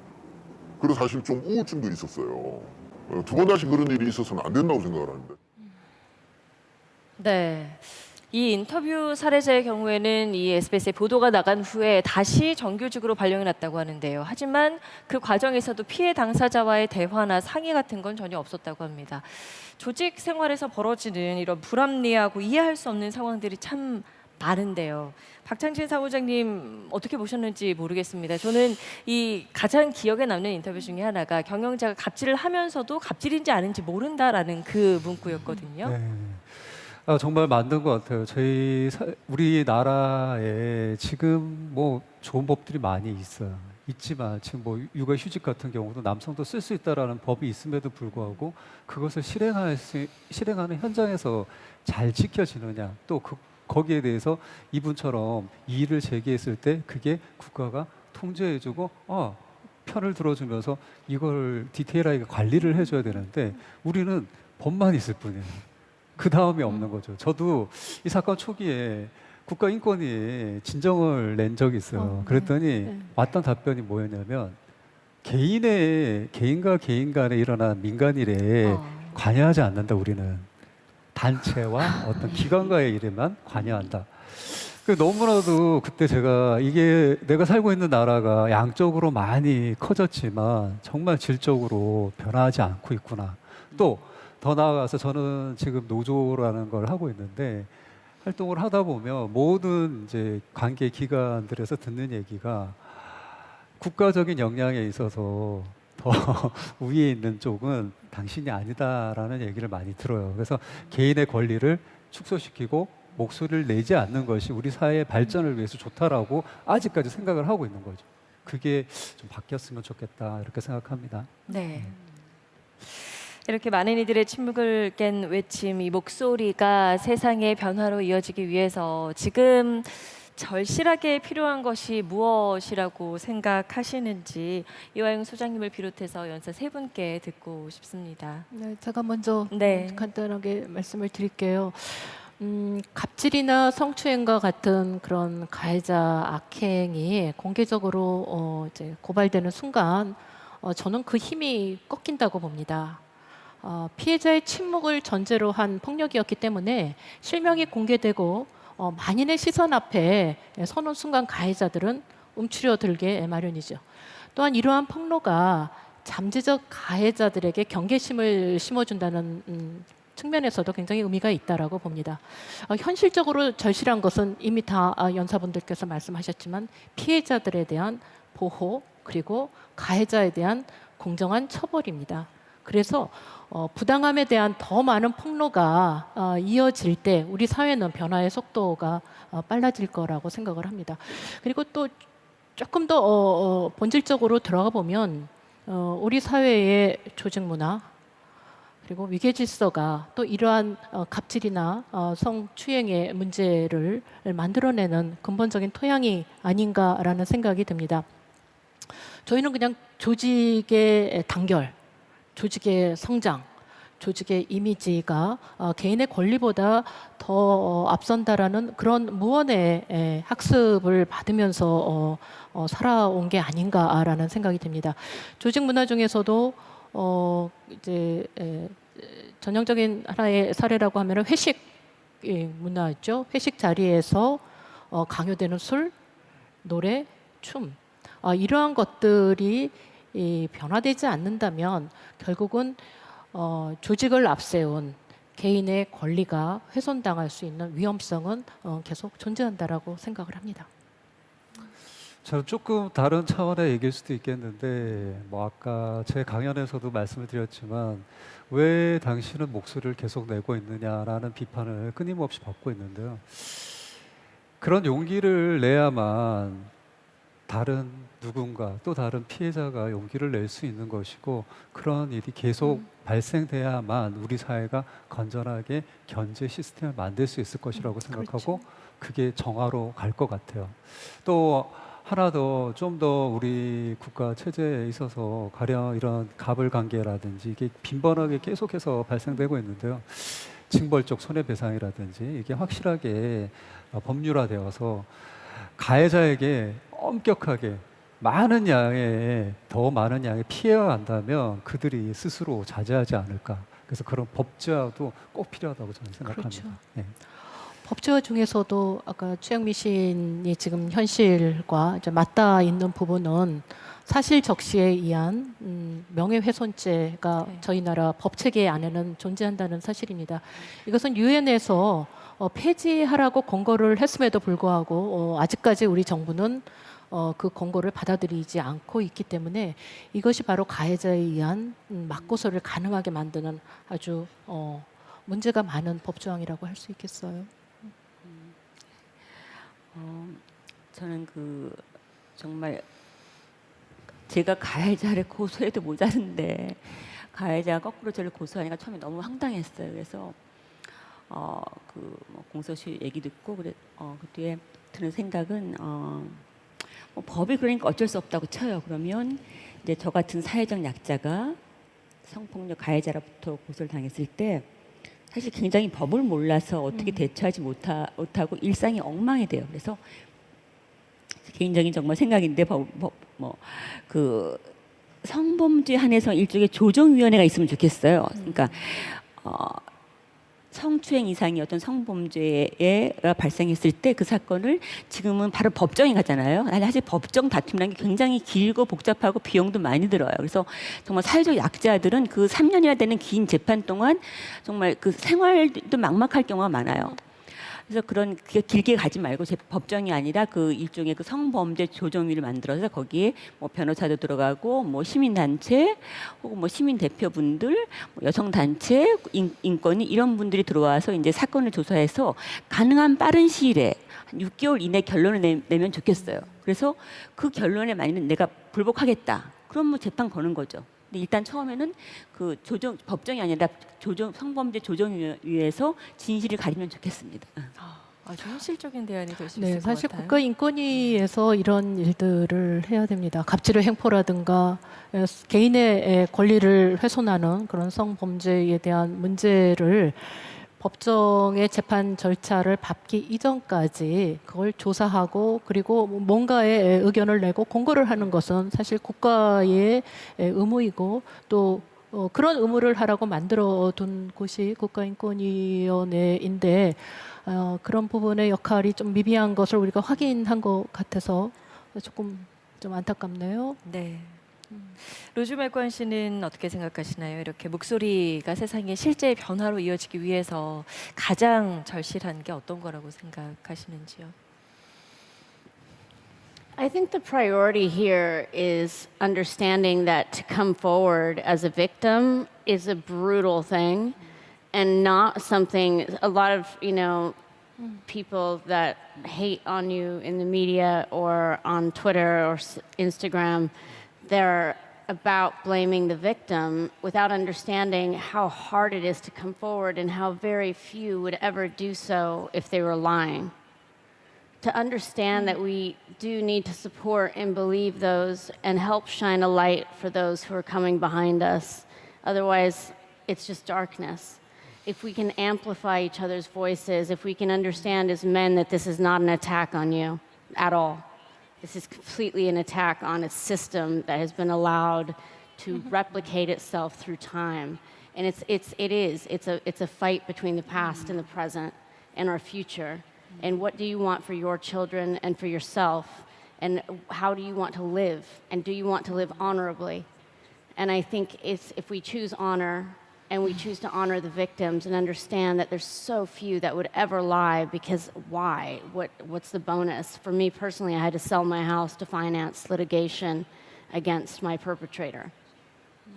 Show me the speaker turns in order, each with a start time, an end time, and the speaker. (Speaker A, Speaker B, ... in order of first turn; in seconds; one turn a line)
Speaker A: 0.8-5.4
Speaker B: 7.2-36.0
Speaker C: 35.8-74.6
Speaker D: 71.9-73.1
Speaker C: 75.2-80.5
Speaker B: 78.6-79.2
Speaker C: 81.1-121.9
Speaker E: 83.5-83.9
Speaker E: 93.7-94.0
Speaker B: 121.5-121.9
Speaker B: 122.8-138.5
Speaker D: 138.5-153.0
Speaker B: 139.5-140.1
Speaker D: 153.6-192.0
Speaker D: 192.6-197.9
Speaker D: 198.8-208.1
Speaker D: 209.2-211.7
Speaker D: 212.3-231.7
Speaker D: 232.2-235.9
Speaker D: 236.6-250.7
Speaker C: 252.2-264.0
Speaker C: 264.6-266.7
Speaker C: 267.5-307.1
Speaker D: 277.7-278.6
Speaker D: 306.2-337.5
Speaker E: 332.1-332.4
Speaker E: 338.2-338.6
Speaker E: 339.9-342.9
Speaker E: 344.2-350.4
Speaker E: 351.3-356.4
Speaker E: 357.1-361.6
Speaker E: 362.2-364.7
Speaker E: 365.3-370.0
Speaker E: 371.4-379.9
Speaker B: 378.4-378.7
Speaker E: 380.7-427.7
Speaker B: 427.8-430.4
Speaker D: 429.6-463.8
Speaker B: 463.8-464.4
Speaker D: 464.7-465.0
Speaker B: 465.0-474.3
Speaker F: 476.8-484.2
Speaker F: 484.7-487.4
Speaker F: 488.0-493.7
Speaker F: 494.2-503.5
Speaker F: 504.6-521.0
Speaker F: 521.6-540.1
Speaker F: 540.7-555.3